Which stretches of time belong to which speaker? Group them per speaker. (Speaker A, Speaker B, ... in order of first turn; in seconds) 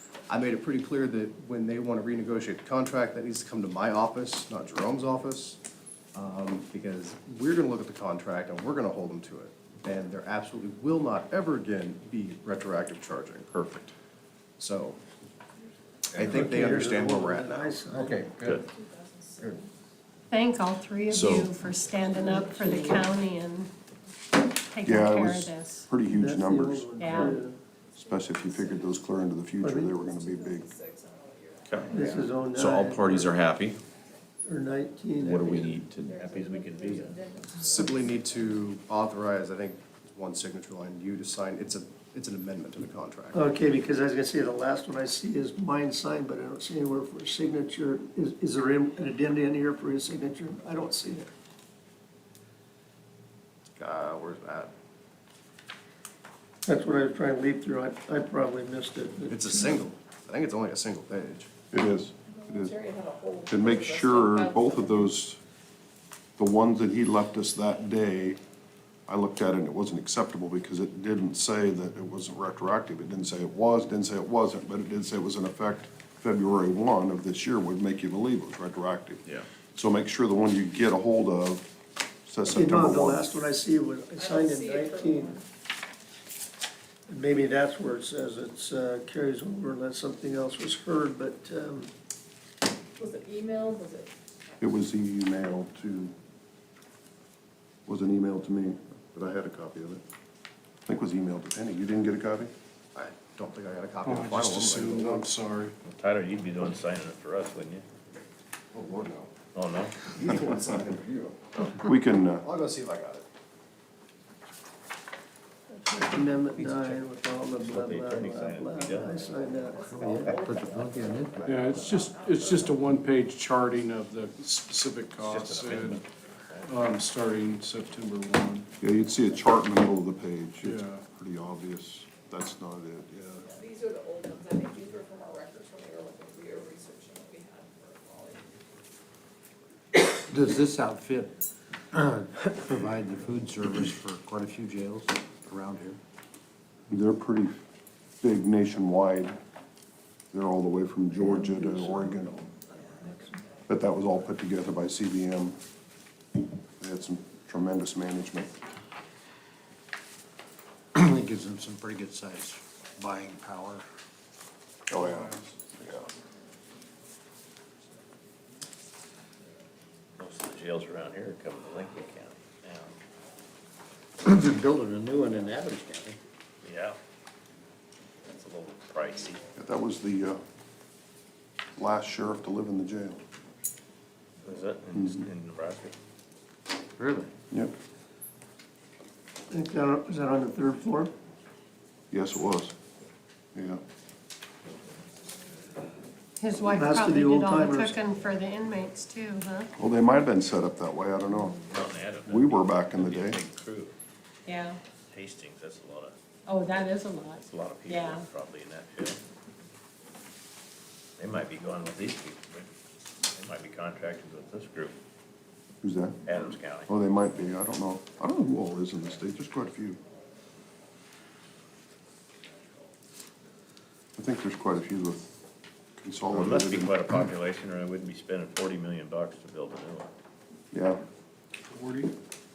Speaker A: 0.3-5.6, 6.1-13.8, 14.6-15.0, 16.1-17.9, 37.6-43.4, 53.8-54.7, 59.3-61.5, 102.9-105.3, 108.7-109.3, 110.0-113.2
Speaker B: 16.2-18.1, 22.1-23.0, 26.1-27.6, 29.6-29.9, 31.9-33.3, 34.4-35.8, 43.3-51.3, 56.6-59.8, 82.5-85.4, 87.1-91.9, 115.7-119.9, 151.5-153.3, 189.5-191.1, 196.6-198.0
Speaker C: 17.9-18.5, 119.8-121.3, 140.3-141.3, 141.9-146.0, 160.9-163.8, 174.2-176.2, 186.9-187.3
Speaker D: 18.5-19.6, 27.9-29.1, 29.9-32.5, 36.0-38.4, 62.3-65.0, 84.1-85.4, 93.0-94.1, 119.2-122.8, 133.4-138.5
Speaker E: 20.3-23.7, 24.6-25.9, 27.0-27.4, 196.4-199.7, 204.4-204.8, 206.5-208.2
Speaker F: 24.8-27.3, 27.9-30.7, 61.7-62.8, 63.5-65.4, 66.4-68.4, 69.1-79.2, 79.7-81.7, 82.2-83.3, 94.6-96.1, 97.8-100.0, 100.8-102.5, 111.7-112.4, 128.8-133.4, 146.9-147.6, 148.2-149.4, 150.3-152.4, 153.7-155.6, 156.8-158.5, 164.9-166.1, 179.6-180.4, 181.8-183.2, 184.9-185.2, 192.1-192.7, 193.5-193.8, 199.8-201.7, 202.2-203.4, 215.8-216.2, 216.8-220.0, 224.2-225.4, 226.0-227.0, 230.7-231.0
Speaker G: 31.6-32.0, 32.5-33.8, 35.2-36.2
Speaker H: 36.1-37.2, 105.8-107.8, 109.5-109.9, 116.6-119.5, 125.2-126.9, 170.2-172.9, 176.6-177.0, 178.3-179.4, 184.4-185.9, 201.7-203.9, 205.1-206.1, 207.3-209.2, 211.2-212.7, 213.3-214.9, 216.2-216.9, 226.3-230.1
Speaker I: 104.0-105.8, 121.4-126.0, 126.6-128.7, 130.6-131.0, 231.7-232.1